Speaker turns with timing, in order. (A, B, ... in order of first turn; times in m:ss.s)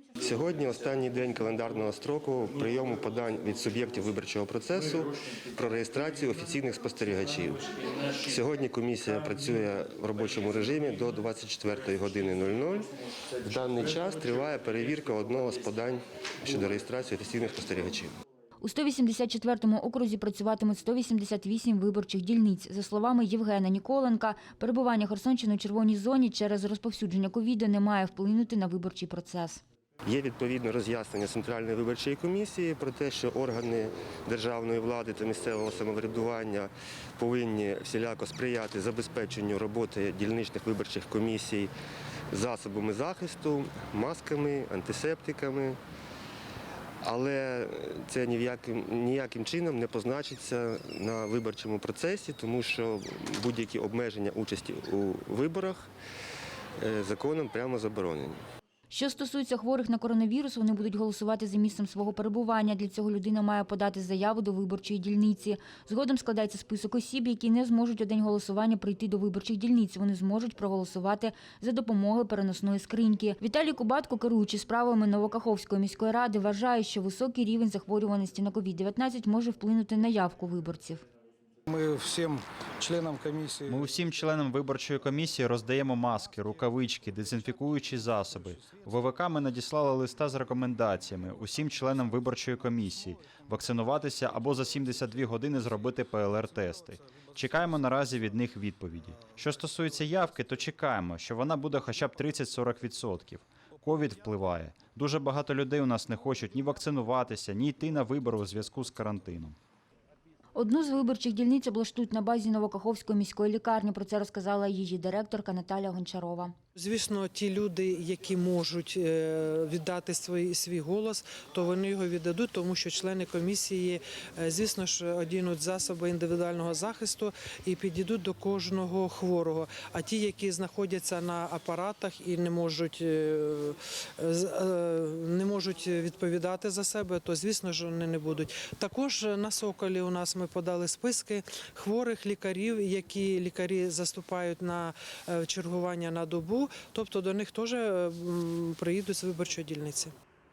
0:00.2-0:18.1 A
0:18.6-0:29.6 B
0:30.1-0:41.7 A
0:42.3-0:45.8 A
0:47.0-0:55.9 A
0:56.8-0:58.4 A
0:58.9-1:21.0 B
1:21.7-1:23.8 C
1:23.7-1:49.6 D
1:50.6-1:56.5 B
1:56.8-2:30.2 E